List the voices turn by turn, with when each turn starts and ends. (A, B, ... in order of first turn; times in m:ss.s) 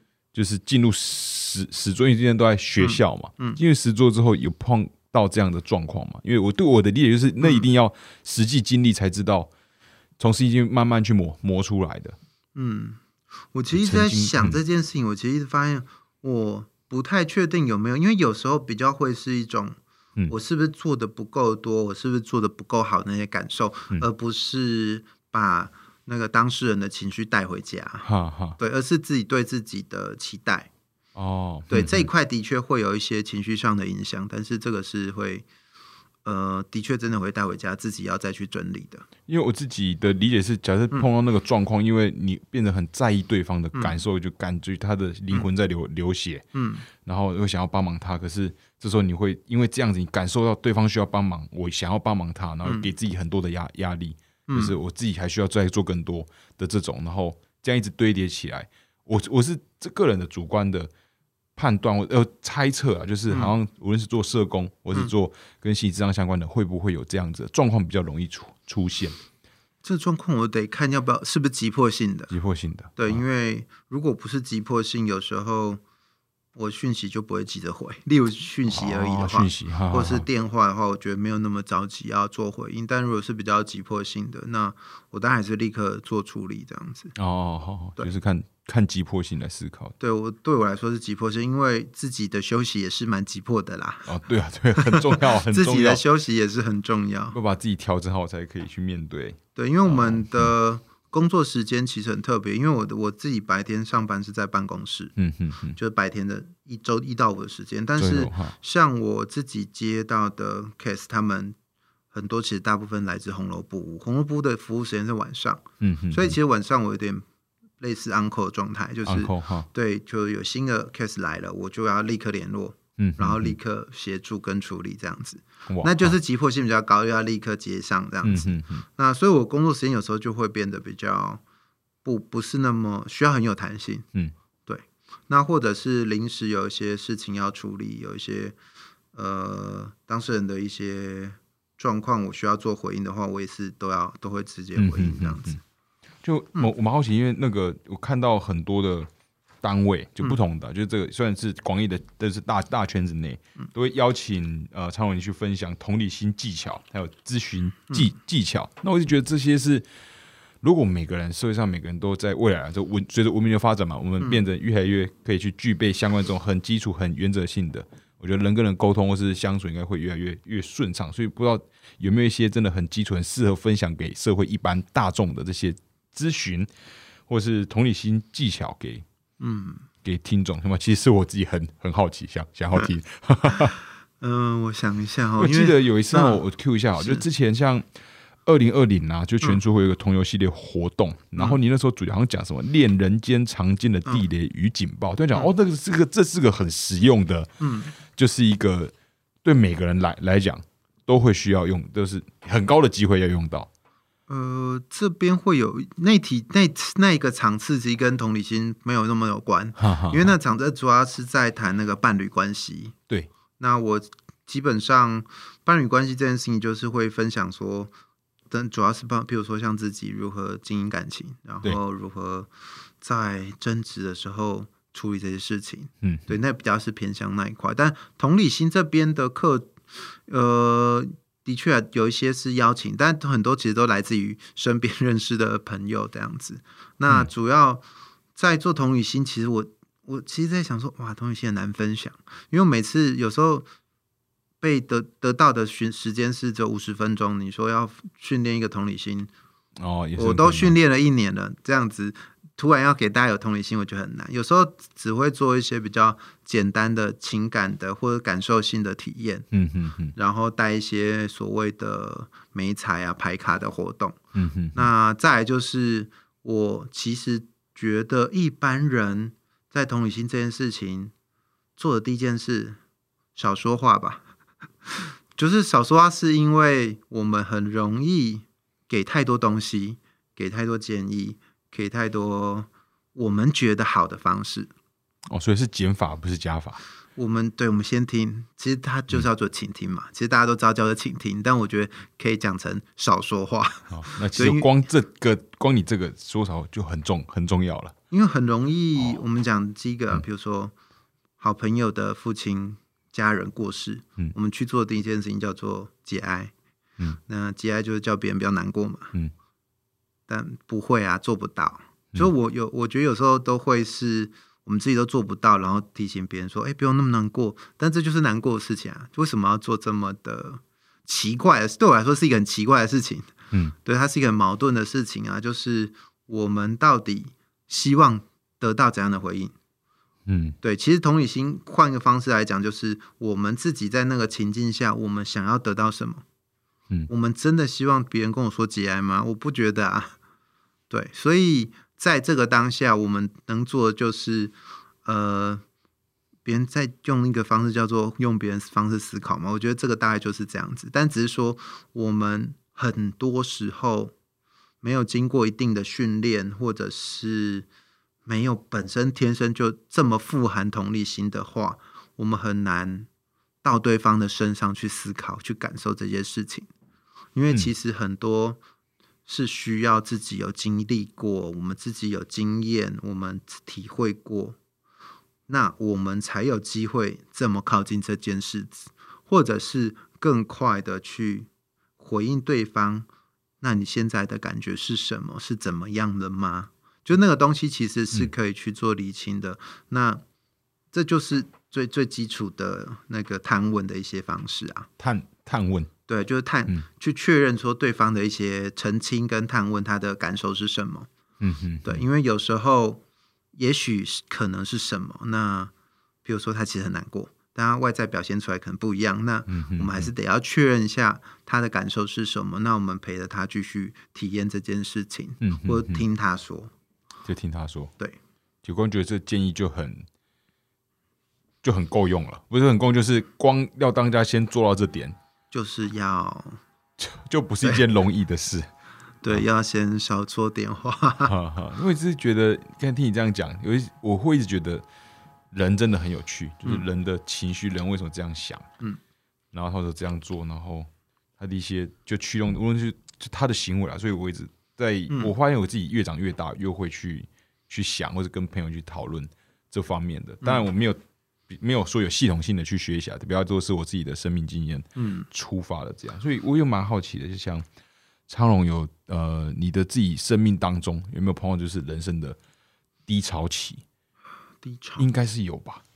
0:00.3-0:09.5 A
0:02.8-0:03.6 B
0:10.2-0:12.2 A
0:12.6-0:13.0 B
0:13.5-0:19.8 B
0:13.7-0:14.6 A
0:20.3-0:28.1 B
0:28.0-0:28.6 A
0:28.6-0:30.7 B
0:31.2-0:32.1 A
0:31.7-0:35.4 B
0:36.2-0:39.1 B
0:39.3-0:46.5 A
0:43.8-0:44.0 B
0:46.6-0:46.9 B
0:47.0-1:00.9 A
0:52.6-0:52.9 B
0:54.5-0:54.8 B
1:01.6-1:09.2 A
1:03.3-1:03.5 B
1:09.8-1:12.3 B
1:12.3-1:13.2 A
1:13.0-1:15.8 B
1:16.6-1:27.1 B
1:18.7-1:20.3 A
1:27.2-1:30.0 A
1:30.0-1:34.2 B
1:34.1-1:36.0 A
1:34.8-1:37.4 B
1:37.3-1:40.5 A
1:39.6-1:45.1 B
1:45.2-1:45.8 A
1:45.8-1:51.6 B
1:48.0-1:48.6 A
1:52.1-1:57.2 B
1:55.8-1:56.4 A
1:57.8-2:11.4 B
1:59.1-1:59.7 A
2:03.0-2:03.6 A
2:05.7-2:06.2 A
2:08.2-2:08.8 A
2:12.0-2:14.1 B
2:14.7-2:18.6 B
2:19.2-2:25.6 B
2:24.8-2:25.6 A
2:26.2-2:29.1 A
2:29.6-2:39.9 A
2:40.6-2:56.7 A
2:57.3-2:59.0 A
2:59.4-2:59.8 B
3:00.0-3:03.8 A
3:04.2-3:06.4 B
3:05.4-3:07.9 A
3:08.4-3:18.9 A
3:17.6-3:17.9 B
3:19.4-3:23.7 A
3:24.3-3:33.0 B
3:29.8-3:30.4 A
3:33.6-3:37.9 B
3:38.5-3:42.5 B
3:43.0-3:57.8 B
3:46.0-3:46.4 A
3:58.4-4:03.7 B
4:04.6-4:09.3 B
4:09.8-4:10.8 A
4:10.2-4:19.5 B
4:19.5-4:20.2 A
4:20.2-4:24.2 B
4:24.3-4:24.8 A
4:24.8-4:31.1 B
4:31.8-4:32.8 B
4:33.4-4:34.2 B
4:34.9-4:44.7 B
4:45.3-4:46.8 A
4:47.2-4:54.7 B
4:53.9-4:58.0 A
4:58.1-5:00.7 B
5:01.4-5:06.5 B
5:07.3-5:09.1 B
5:10.3-5:23.3 B
5:23.8-5:29.5 B
5:30.3-5:30.6 A
5:30.6-5:36.2 B
5:37.1-5:40.1 B
5:40.9-5:45.6 B
5:46.4-5:54.1 B
5:54.8-5:57.7 B
5:58.3-6:03.1 B
6:03.6-6:06.7 B
6:07.4-6:08.6 B
6:09.3-6:14.6 B
6:15.5-6:21.5 B
6:22.0-6:23.1 B
6:23.6-6:30.2 B
6:30.9-6:34.9 B
6:35.0-6:35.9 A
6:36.1-6:41.1 B
6:41.4-6:42.0 A
6:41.8-6:43.0 B
6:43.5-6:45.7 B
6:46.2-6:56.7 B
6:49.5-6:50.1 A
6:55.4-6:56.0 A
6:57.2-6:57.9 A
6:58.6-7:00.0 A
7:01.6-7:05.2 A
7:05.5-7:06.6 B
7:07.0-7:08.7 A
7:09.2-7:11.3 B
7:11.2-7:14.8 A
7:15.5-7:18.7 A
7:19.5-7:37.7 A
7:30.4-7:30.7 B
7:35.0-7:35.3 B
7:38.3-7:42.4 A
7:43.1-7:43.8 A
7:44.6-7:45.1 B
7:45.0-7:45.8 A